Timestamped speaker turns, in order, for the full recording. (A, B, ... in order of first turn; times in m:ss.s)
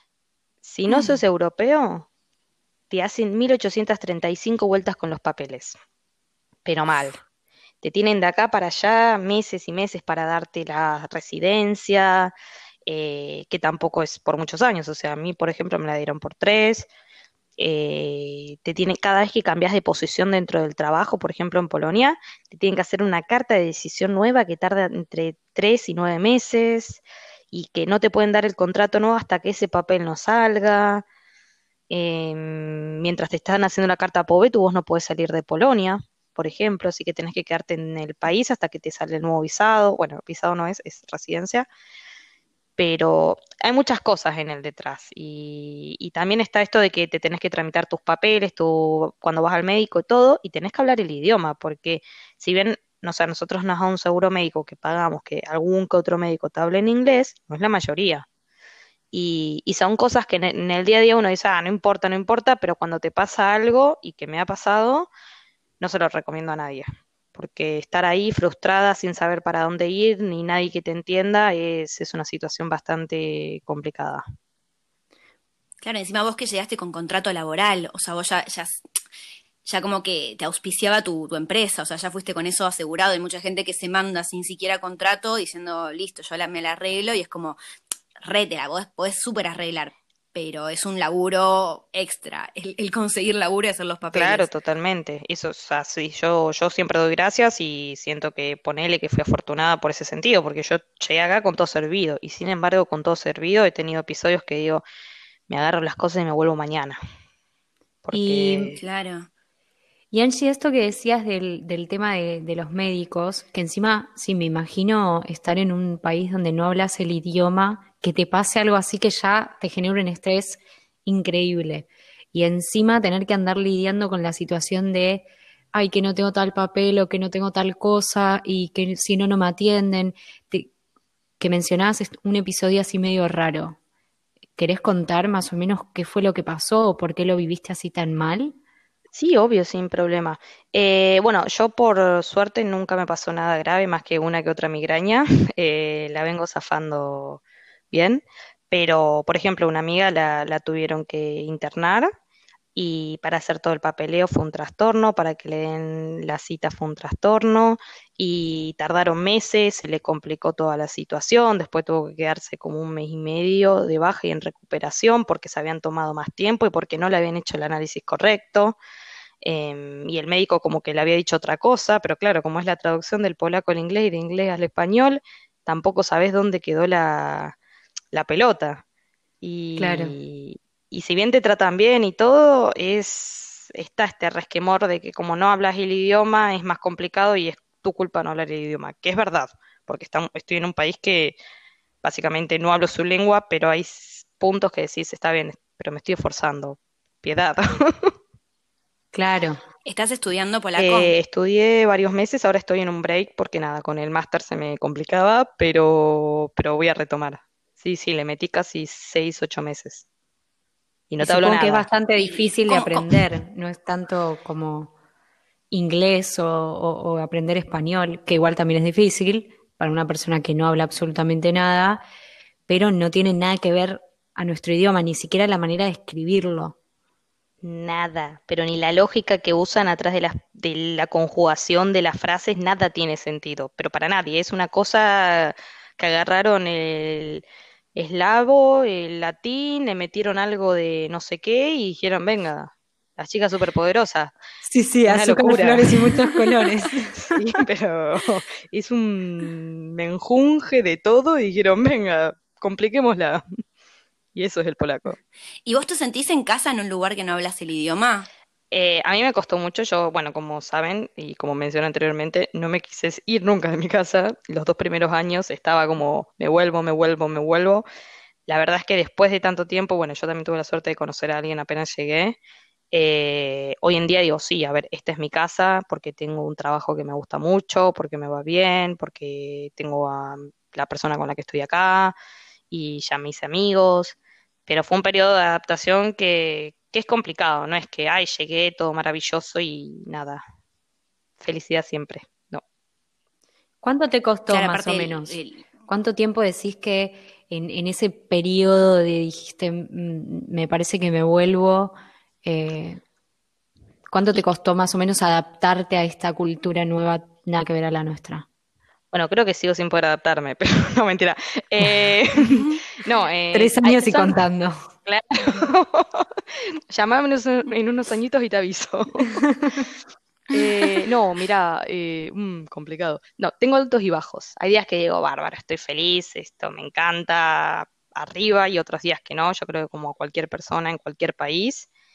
0:00.6-0:02.1 A
0:00.9-0:01.2 B
0:02.9-0:05.8 A
0:06.6-0:07.2 A
0:07.8-0:12.3 A
0:12.8-0:16.9 A
0:17.6-0:31.0 A
0:31.9-0:41.7 A
0:42.8-0:58.2 A
0:59.1-1:05.1 A
1:05.8-1:14.2 A
1:15.8-1:18.8 B
1:19.6-1:27.6 B
1:28.2-1:34.5 B
1:34.1-1:44.8 A
1:45.5-1:47.0 A
1:48.0-1:48.8 A
1:48.1-1:48.7 C
1:48.8-1:49.3 B
1:50.1-2:10.7 C
2:11.4-2:13.8 C
2:14.6-2:18.5 C
2:19.1-2:32.1 A
2:32.7-2:48.8 A
2:49.4-2:57.6 A
2:58.1-2:58.8 A
2:59.4-3:11.4 A
2:59.8-3:00.1 C
3:12.0-3:18.1 A
3:19.1-3:19.6 C
3:19.8-3:21.2 B
3:20.8-3:30.0 A
3:31.1-3:31.9 A
3:31.2-3:34.9 C
3:32.2-3:33.2 B
3:35.7-3:42.0 C
3:42.7-3:46.8 C
3:47.6-3:57.4 A
3:57.9-4:04.4 A
4:04.6-4:07.2 C
4:05.0-4:05.8 A
4:07.1-4:13.4 A
4:14.3-4:15.2 A
4:15.6-4:18.3 B
4:18.7-4:27.8 A
4:28.5-4:32.4 A
4:32.9-4:42.2 A
4:42.7-4:50.4 A
4:51.4-4:52.6 A
4:53.8-5:03.0 C
4:54.5-4:55.6 B
5:04.1-5:08.5 C
5:09.1-5:14.4 A
5:13.5-5:14.8 C
5:15.0-5:19.8 A
5:19.4-5:19.9 C
5:20.5-5:31.9 A
5:20.6-5:21.0 B